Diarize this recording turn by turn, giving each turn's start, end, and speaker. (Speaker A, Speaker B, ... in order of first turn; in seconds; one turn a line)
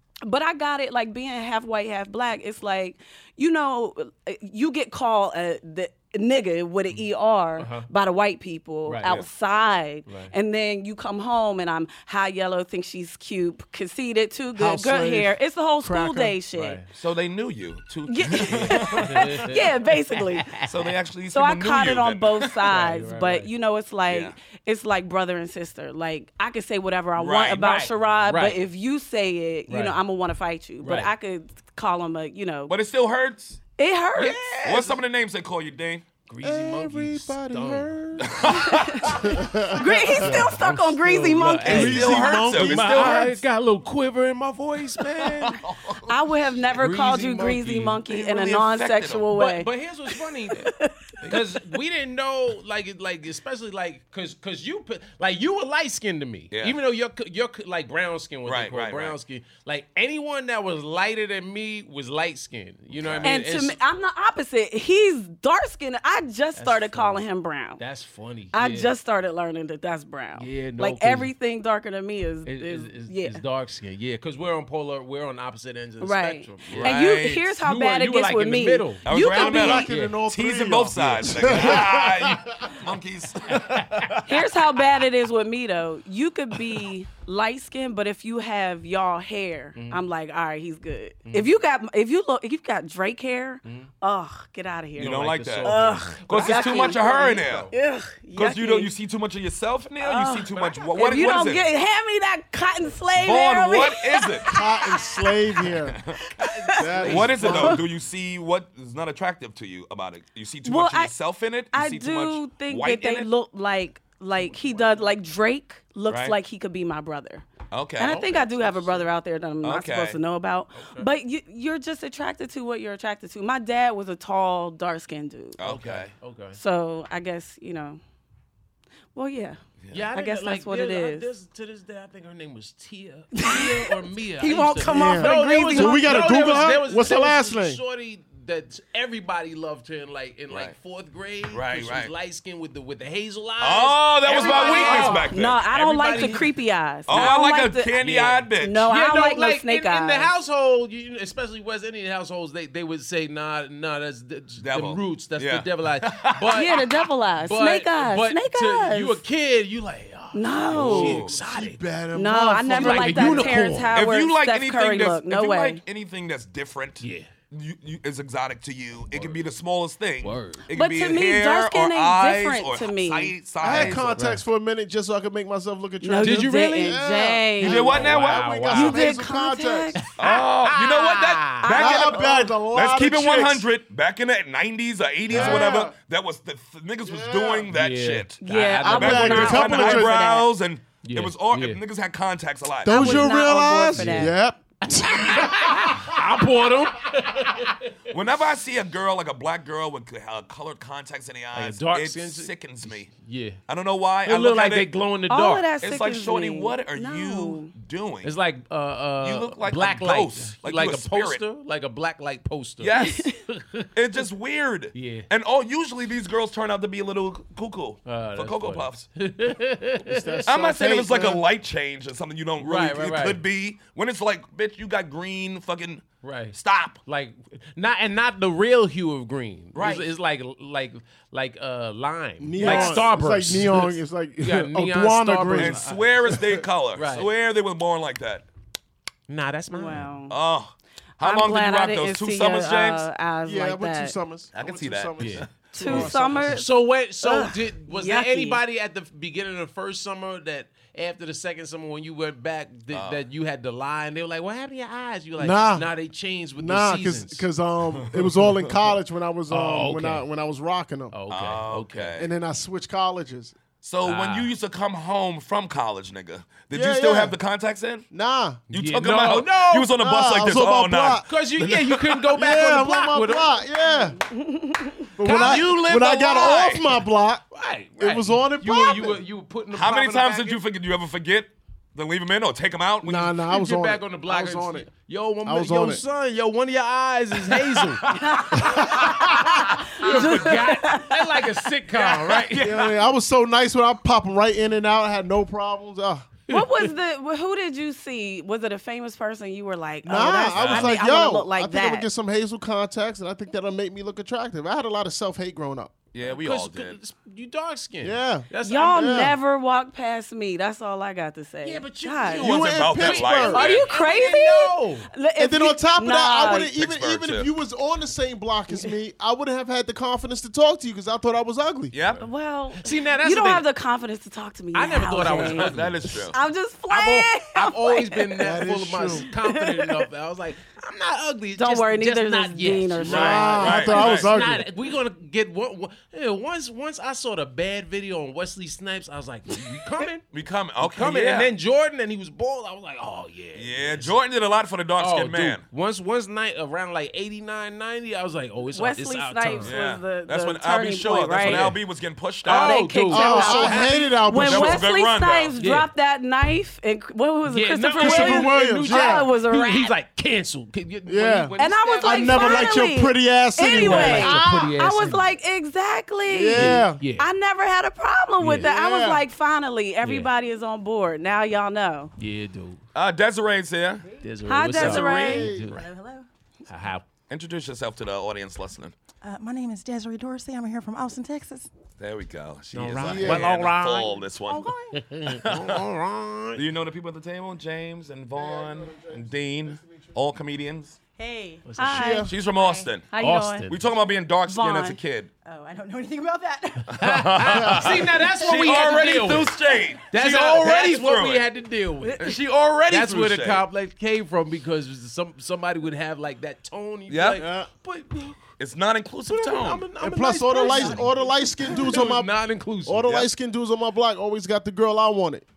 Speaker A: 0.2-16.8
Speaker B: 7.6-7.9
Speaker B: 10.1-10.3
Speaker C: 14.6-16.4
Speaker B: 16.5-16.9
Speaker D: 16.9-19.2
Speaker A: 18.1-20.6
Speaker B: 18.5-20.9
Speaker D: 20.6-22.4
Speaker A: 21.3-32.7
Speaker B: 22.6-23.5
Speaker D: 24.1-24.3
Speaker D: 27.2-27.7
Speaker B: 27.6-28.6
Speaker B: 29.7-30.0
Speaker B: 30.8-31.1
Speaker D: 32.7-33.6
Speaker A: 33.8-34.5
Speaker B: 34.2-35.0
Speaker D: 34.6-36.0
Speaker B: 36.3-38.0
Speaker C: 36.4-38.5
Speaker D: 38.2-39.3
Speaker A: 38.5-42.5
Speaker C: 39.1-40.5
Speaker B: 40.2-45.6
Speaker C: 41.6-43.2
Speaker D: 41.7-43.4
Speaker D: 45.0-46.1
Speaker A: 46.1-49.7
Speaker B: 46.8-48.0
Speaker D: 48.1-49.3
Speaker B: 49.3-63.8
Speaker A: 50.5-51.6
Speaker D: 56.5-56.8
Speaker D: 58.5-59.2
Speaker D: 63.0-63.4
Speaker A: 63.2-67.8
Speaker B: 66.6-67.2
Speaker B: 67.8-68.9
Speaker A: 68.5-73.4
Speaker B: 70.4-71.3
Speaker B: 72.5-80.2
Speaker A: 76.0-79.9
Speaker D: 76.7-77.5
Speaker D: 79.0-84.5
Speaker C: 79.1-82.7
Speaker B: 81.0-81.8
Speaker B: 83.8-84.0
Speaker A: 84.3-98.9
Speaker B: 93.7-93.9
Speaker D: 95.0-97.7
Speaker B: 95.0-97.7
Speaker D: 98.4-101.7
Speaker A: 100.0-105.4
Speaker B: 100.5-101.4
Speaker D: 103.2-104.5
Speaker C: 104.5-106.0
Speaker A: 106.3-107.8
Speaker B: 106.4-107.8
Speaker C: 106.7-107.8
Speaker D: 107.0-113.3
Speaker A: 110.6-111.1
Speaker A: 111.7-117.5
Speaker D: 116.1-116.3
Speaker D: 117.7-118.2
Speaker A: 118.0-125.6
Speaker B: 118.0-119.0
Speaker D: 119.6-120.2
Speaker B: 120.7-121.1
Speaker D: 125.6-126.1
Speaker B: 125.6-126.6
Speaker A: 126.5-128.0
Speaker A: 129.2-129.6
Speaker B: 129.9-146.5
Speaker A: 130.1-131.3
Speaker A: 133.3-136.6
Speaker C: 134.9-137.8
Speaker D: 140.5-140.8
Speaker D: 141.5-142.1
Speaker D: 143.6-145.6
Speaker C: 144.3-145.3
Speaker A: 144.4-148.0
Speaker D: 147.1-148.8
Speaker B: 147.1-147.3
Speaker B: 148.0-156.8
Speaker A: 148.6-150.3
Speaker D: 154.6-156.8
Speaker A: 156.5-159.2
Speaker B: 157.4-161.8
Speaker A: 160.3-161.3
Speaker D: 160.7-161.3
Speaker C: 160.8-163.7
Speaker A: 162.2-165.8
Speaker B: 162.8-163.9
Speaker D: 163.9-174.2
Speaker B: 167.0-167.3
Speaker B: 169.1-169.4
Speaker B: 170.2-170.7
Speaker A: 170.7-173.3
Speaker C: 173.6-180.0
Speaker B: 173.7-174.4
Speaker A: 176.0-177.9
Speaker B: 176.2-177.0
Speaker D: 177.6-178.5
Speaker B: 177.6-179.1
Speaker A: 178.7-180.0
Speaker B: 180.0-181.6
Speaker D: 180.2-193.3
Speaker A: 181.6-182.6
Speaker C: 181.7-183.7
Speaker C: 185.3-185.9
Speaker B: 185.3-185.8
Speaker C: 187.0-187.7
Speaker B: 187.7-189.6
Speaker A: 188.4-190.5
Speaker C: 188.8-190.3
Speaker B: 191.0-191.8
Speaker C: 192.8-196.3
Speaker A: 192.9-194.4
Speaker B: 193.9-194.3
Speaker B: 195.3-197.9
Speaker D: 198.1-203.1
Speaker B: 201.5-203.6
Speaker D: 203.7-204.9
Speaker B: 204.2-205.7
Speaker A: 205.3-207.7
Speaker D: 205.8-208.3
Speaker B: 208.2-213.9
Speaker D: 209.2-211.4
Speaker D: 212.8-213.3
Speaker A: 213.0-213.4
Speaker D: 213.9-219.1
Speaker B: 214.9-215.3
Speaker B: 218.1-220.5
Speaker C: 220.0-221.4
Speaker D: 220.5-227.0
Speaker B: 222.6-223.4
Speaker B: 226.2-236.4
Speaker D: 229.8-230.1
Speaker C: 232.4-235.8
Speaker D: 232.6-233.0
Speaker D: 235.6-238.5
Speaker B: 236.9-237.3
Speaker B: 239.3-240.1
Speaker A: 239.7-240.3
Speaker D: 240.3-243.1
Speaker A: 241.2-244.2
Speaker C: 243.4-246.7
Speaker D: 244.6-245.5
Speaker B: 245.2-257.4
Speaker A: 245.7-248.6
Speaker D: 252.9-253.2
Speaker C: 255.4-255.9
Speaker C: 256.6-261.1
Speaker D: 258.0-258.6
Speaker B: 259.5-260.3
Speaker B: 261.1-262.2
Speaker D: 261.3-262.3
Speaker C: 262.2-263.6
Speaker D: 263.8-268.1
Speaker B: 264.0-264.5
Speaker C: 266.7-267.4
Speaker C: 268.1-268.6
Speaker D: 268.7-272.3
Speaker B: 268.7-269.9
Speaker C: 269.9-271.3
Speaker B: 271.3-273.6
Speaker C: 272.3-274.2
Speaker A: 274.2-275.1
Speaker C: 275.2-277.4
Speaker B: 275.2-276.7
Speaker D: 275.3-276.8
Speaker B: 277.5-280.6
Speaker C: 278.0-279.2
Speaker D: 279.7-283.4
Speaker C: 283.0-284.9
Speaker B: 283.5-288.1
Speaker C: 285.4-286.0
Speaker D: 288.0-288.6
Speaker A: 288.2-288.9
Speaker C: 288.6-289.8
Speaker B: 288.7-292.8
Speaker A: 290.0-291.3
Speaker D: 290.0-290.4
Speaker D: 291.9-293.0
Speaker C: 292.6-296.3
Speaker B: 296.5-296.9
Speaker A: 296.5-302.1
Speaker C: 300.0-305.9
Speaker D: 300.6-300.9
Speaker D: 306.1-307.0
Speaker B: 306.2-309.3
Speaker C: 308.0-309.4
Speaker A: 308.6-312.4
Speaker B: 311.6-315.1
Speaker C: 312.4-313.8
Speaker D: 312.4-313.9
Speaker A: 313.5-316.7
Speaker C: 315.4-321.9
Speaker D: 316.4-317.5
Speaker D: 321.9-322.2
Speaker A: 322.2-328.7
Speaker B: 322.8-323.7
Speaker B: 324.7-326.3
Speaker D: 325.2-326.4
Speaker B: 326.9-340.2
Speaker C: 328.4-329.3
Speaker A: 329.2-330.0
Speaker A: 331.6-333.8
Speaker C: 333.1-334.7
Speaker D: 333.5-334.3
Speaker D: 340.3-341.5
Speaker B: 340.8-344.1
Speaker D: 343.6-345.6
Speaker B: 345.0-349.7
Speaker A: 348.8-351.7
Speaker D: 349.6-352.8
Speaker B: 351.4-351.8
Speaker B: 352.4-354.1
Speaker A: 352.4-359.9
Speaker C: 353.1-354.9
Speaker D: 354.4-355.5
Speaker B: 355.6-355.9
Speaker B: 357.5-362.9
Speaker C: 358.0-359.3
Speaker C: 361.1-364.8
Speaker A: 361.6-372.1
Speaker B: 363.8-365.4
Speaker C: 366.3-367.0
Speaker B: 366.5-367.3
Speaker B: 368.4-368.7
Speaker C: 368.6-369.2
Speaker B: 370.0-370.3
Speaker B: 372.2-372.8
Speaker D: 372.9-374.1
Speaker B: 374.2-375.9
Speaker A: 374.5-375.5
Speaker C: 374.7-375.8
Speaker E: 375.2-376.3
Speaker B: 376.7-377.1
Speaker D: 377.3-378.9
Speaker E: 379.2-381.7
Speaker D: 382.0-385.8
Speaker B: 382.7-384.2
Speaker C: 383.0-383.6
Speaker E: 384.4-385.0
Speaker B: 384.9-386.6
Speaker D: 386.6-391.0
Speaker C: 388.4-390.1
Speaker E: 391.2-391.8
Speaker B: 391.7-392.2
Speaker A: 391.8-392.3
Speaker C: 391.9-392.3
Speaker D: 392.2-393.0
Speaker E: 392.5-392.9
Speaker A: 393.1-393.7
Speaker B: 393.2-393.8
Speaker D: 393.7-395.3
Speaker A: 394.5-395.0
Speaker E: 395.4-397.0
Speaker D: 396.9-401.5
Speaker B: 397.0-399.6
Speaker C: 397.5-398.0
Speaker E: 398.3-399.7
Speaker B: 400.1-402.4
Speaker D: 402.2-403.6
Speaker B: 402.9-408.5
Speaker D: 407.1-407.4
Speaker C: 407.4-407.7
Speaker D: 408.6-409.9
Speaker B: 409.3-413.1
Speaker C: 410.0-412.3
Speaker E: 410.6-411.2
Speaker C: 412.9-415.4